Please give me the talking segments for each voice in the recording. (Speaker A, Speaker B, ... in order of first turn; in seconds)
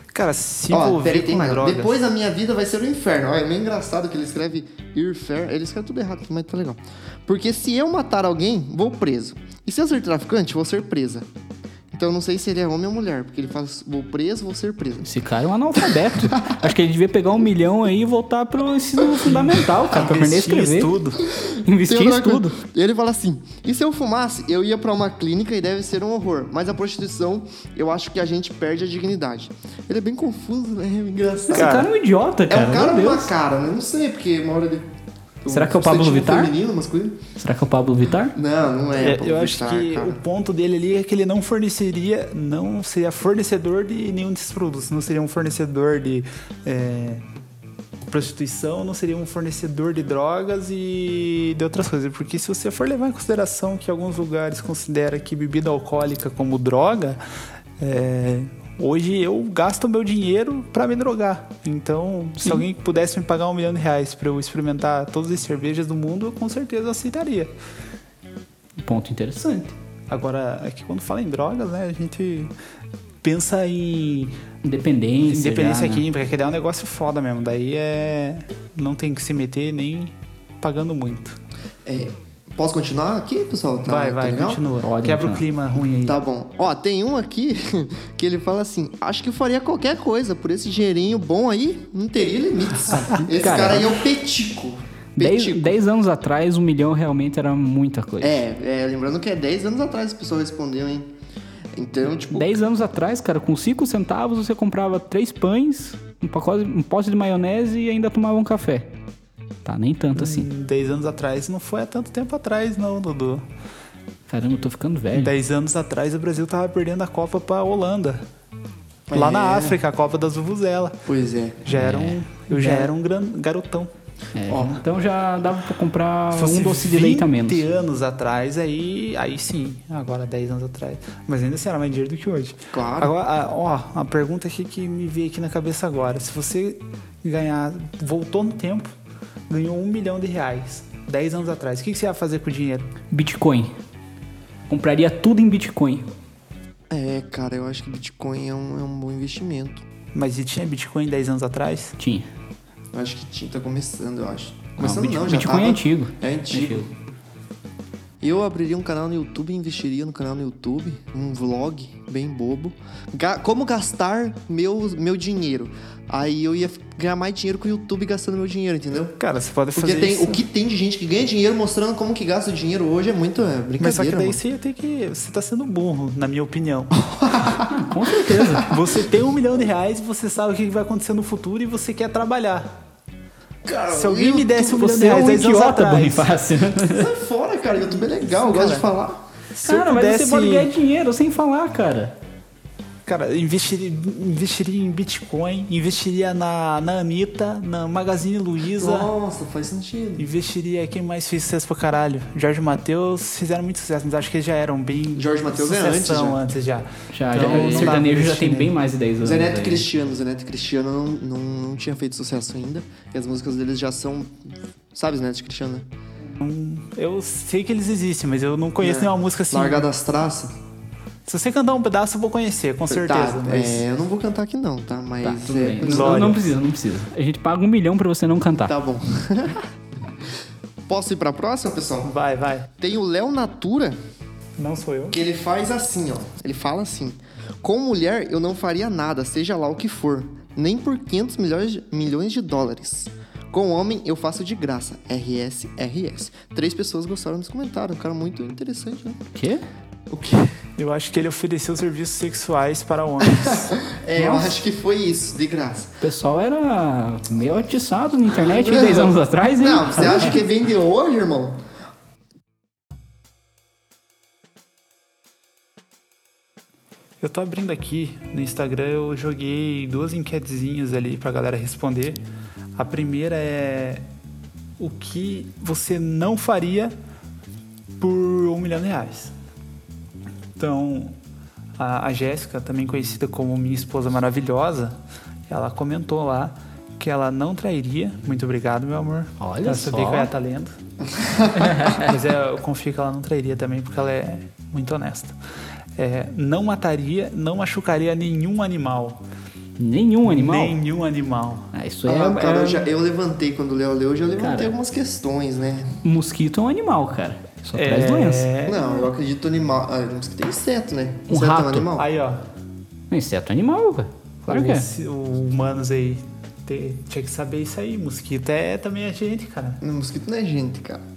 Speaker A: 0.1-2.0, 19.3-21.2, 31.5-31.9, 39.0-47.2, 48.1-57.2, 57.8-67.5, 70.1-72.5, 73.2-74.3, 75.3-81.4, 83.9-86.2, 110.2-113.4, 115.1-118.2, 119.1-121.0, 121.7-123.9, 126.3-138.9, 139.5-142.9, 150.1-152.0, 169.2-170.4, 173.8-177.0, 178.6-182.7, 183.9-186.3, 187.9-188.8, 189.5-190.7, 193.1-199.1, 200.2-208.7, 216.3-219.9, 221.3-223.8, 225.8-226.4, 232.1-232.7, 234.6-235.2, 250.8-253.8, 267.2-272.2, 272.8-274.1, 274.8-276.9, 278.0-279.3, 280.6-281.2, 281.8-290.7, 291.7-295.4, 296.0-299.2, 300.3-301.7, 307.8-309.1, 312.0-312.4, 314.5-319.8
Speaker B: 0.7-11.3, 11.9-15.1, 15.9-16.6, 21.3-31.8, 32.5-34.9, 35.4-37.2, 38.3-40.2, 81.9-84.6, 86.0-95.8, 98.2-101.1, 101.8-102.5, 119.1-119.8, 121.1-121.7, 124.5-124.8, 132.7-133.1, 146.9-149.8, 152.9-156.9, 158.2-169.2, 169.8-174.4, 177.0-177.7, 178.4-178.7, 183.7-184.8, 186.9-189.2, 198.8-200.3, 205.2-206.4, 207.4-208.0, 209.2-214.4, 214.9-215.9, 218.8-220.5, 222.9-226.4, 228.7-229.7, 230.9-232.1, 232.8-234.0, 235.1-249.2, 250.1-250.5, 253.3-256.0, 258.3-261.6, 291.2-291.5, 302.1-306.0, 308.6-312.1, 319.8-321.0
Speaker C: 15.0-20.9, 21.6-22.6, 31.5-33.3, 35.5-36.5, 37.4-38.4, 68.8-69.8, 74.6-76.0, 84.8-85.4, 93.2-94.0, 95.2-98.4, 102.3-108.9, 109.7-110.5, 114.3-115.3, 121.7-122.9, 124.3-127.6, 143.1-143.8, 144.7-146.1, 152.0-152.3, 154.8-156.9, 177.7-178.8, 184.7-187.1, 189.6-192.2, 207.1-209.8, 225.2-228.8, 249.3-249.6, 256.0-260.4, 289.4-290.3, 291.6-292.1, 299.8-300.8, 301.7-302.8, 304.4-304.7, 306.0-308.5, 311.3-311.9, 313.1-314.9